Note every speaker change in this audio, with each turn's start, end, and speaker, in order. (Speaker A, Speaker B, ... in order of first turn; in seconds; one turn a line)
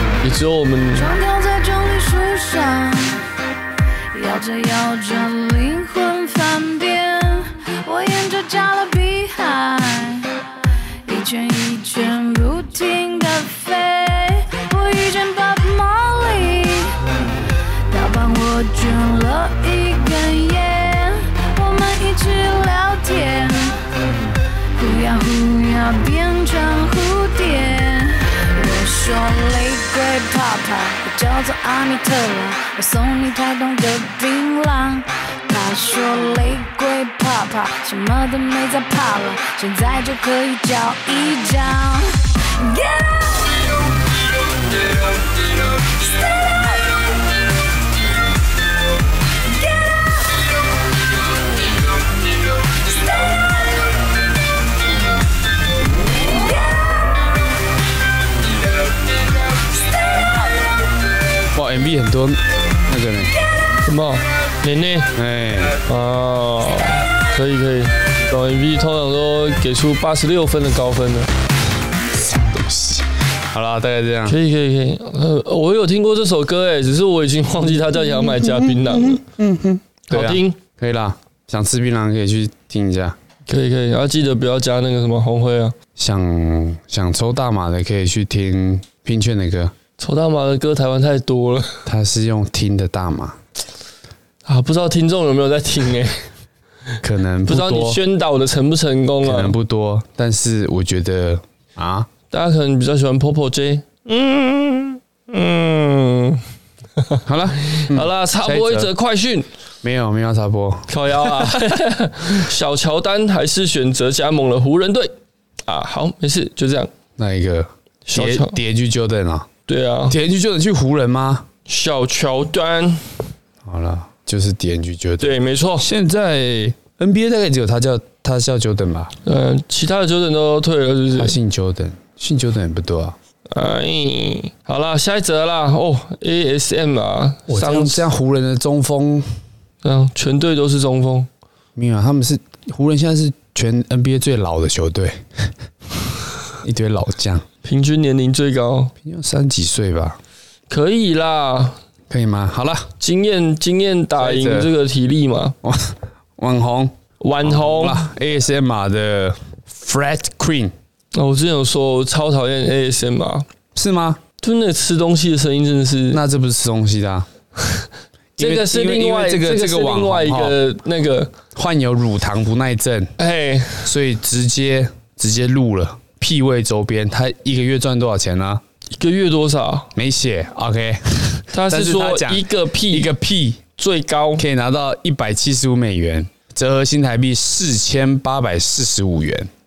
Speaker A: 0.2-1.1
Speaker B: 0.9-3.2
Speaker B: 4.1-10.3
Speaker B: 11.1-17.0
Speaker B: 17.9-23.8
Speaker B: 24.8-43.7
Speaker C: 61.5-63.4
Speaker A: 63.9-65.1
Speaker C: 65.2-65.8
Speaker A: 65.8-71.3
Speaker C: 72.3-74.4
Speaker A: 74.3-79.2
Speaker C: 78.1-83.2
Speaker A: 80.1-80.6
Speaker A: 83.5-85.8
Speaker C: 86.0-89.7
Speaker A: 90.0-91.8
Speaker C: 91.9-93.4
Speaker A: 94.5-96.3
Speaker C: 97.0-98.0
Speaker A: 97.5-99.6
Speaker C: 99.2-102.1
Speaker A: 102.3-106.4
Speaker A: 107.0-109.5
Speaker C: 107.2-108.9
Speaker C: 109.8-111.5
Speaker A: 110.9-115.1
Speaker A: 115.7-116.9
Speaker C: 117.2-119.5
Speaker A: 118.1-118.6
Speaker A: 119.7-120.2
Speaker C: 120.1-121.5
Speaker A: 121.7-123.1
Speaker C: 123.6-129.1
Speaker A: 125.2-125.9
Speaker A: 129.2-131.4
Speaker C: 131.1-133.2
Speaker A: 133.5-138.1
Speaker C: 137.5-139.3
Speaker A: 139.8-141.3
Speaker C: 141.8-145.5
Speaker C: 146.6-147.4
Speaker A: 147.6-148.9
Speaker C: 149.0-150.2
Speaker A: 150.7-151.8
Speaker C: 152.1-152.9
Speaker A: 153.0-155.6
Speaker C: 154.2-154.7
Speaker C: 155.6-160.7
Speaker A: 157.2-158.1
Speaker A: 161.1-163.5
Speaker C: 163.8-164.2
Speaker A: 164.4-166.2
Speaker C: 166.1-167.3
Speaker C: 168.4-170.6
Speaker A: 168.4-171.3
Speaker C: 171.6-173.1
Speaker A: 173.2-173.9
Speaker C: 173.8-178.6
Speaker A: 178.9-179.9
Speaker C: 179.9-183.6
Speaker A: 181.5-183.1
Speaker A: 183.8-184.4
Speaker C: 184.4-189.5